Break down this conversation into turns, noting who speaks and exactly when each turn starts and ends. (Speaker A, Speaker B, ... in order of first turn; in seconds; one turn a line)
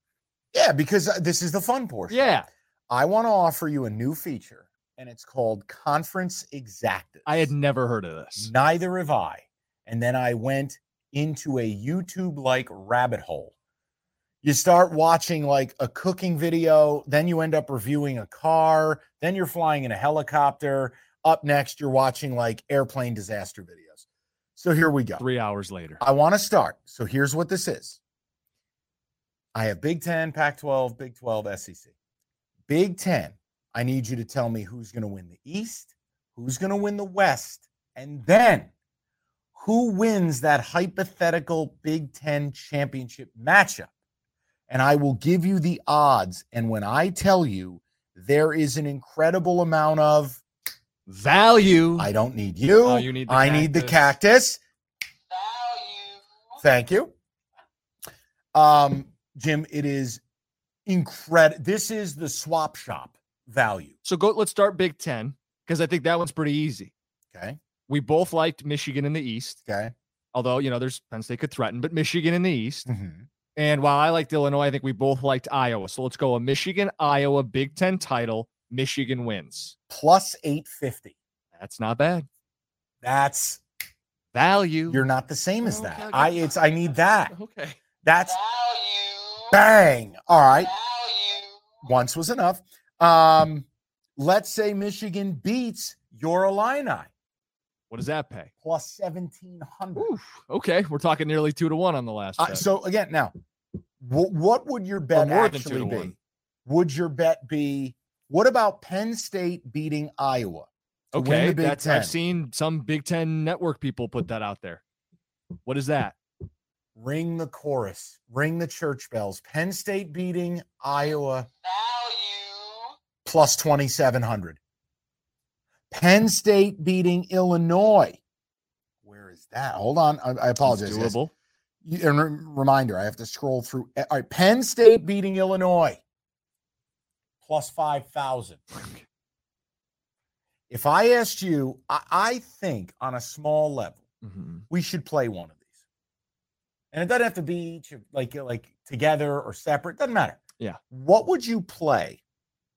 Speaker A: 0.5-7.5
Speaker B: 2.1-2.5
Speaker B: 7.3-8.5
Speaker A: 8.4-13.5
Speaker A: 14.4-24.1
Speaker A: 24.6-25.2
Speaker B: 25.2-26.0
Speaker A: 26.0-28.0
Speaker A: 29.6-31.9
Speaker A: 32.7-38.7
Speaker A: 39.5-43.9
Speaker A: 44.7-50.4
Speaker B: 51.1-52.1
Speaker A: 52.0-54.6
Speaker B: 52.8-54.1
Speaker A: 56.6-57.1
Speaker A: 58.5-60.2
Speaker A: 60.9-63.9
Speaker B: 64.0-66.9
Speaker A: 67.3-67.6
Speaker B: 67.9-69.6
Speaker A: 69.7-69.9
Speaker B: 70.3-72.9
Speaker A: 72.9-73.3
Speaker B: 73.6-79.8
Speaker A: 79.9-81.2
Speaker B: 81.6-82.3
Speaker A: 83.0-83.6
Speaker B: 84.3-85.0
Speaker A: 84.9-87.3
Speaker B: 85.6-86.5
Speaker B: 87.3-87.8
Speaker A: 88.0-88.4
Speaker A: 89.5-90.7
Speaker A: 91.8-93.7
Speaker A: 94.2-97.1
Speaker B: 97.9-98.5
Speaker A: 98.6-100.1
Speaker B: 100.0-102.6
Speaker A: 102.4-103.3
Speaker A: 104.0-106.1
Speaker B: 105.1-106.2
Speaker A: 106.7-112.2
Speaker B: 111.1-114.8
Speaker B: 115.7-116.2
Speaker A: 117.0-121.5
Speaker A: 123.2-124.6
Speaker A: 125.9-128.2
Speaker A: 129.1-131.2
Speaker B: 130.6-131.3
Speaker A: 131.8-136.0
Speaker A: 137.4-138.6
Speaker B: 138.8-139.0
Speaker A: 140.7-144.0
Speaker B: 144.2-144.6
Speaker A: 144.7-145.6
Speaker A: 146.9-150.4
Speaker A: 150.9-152.2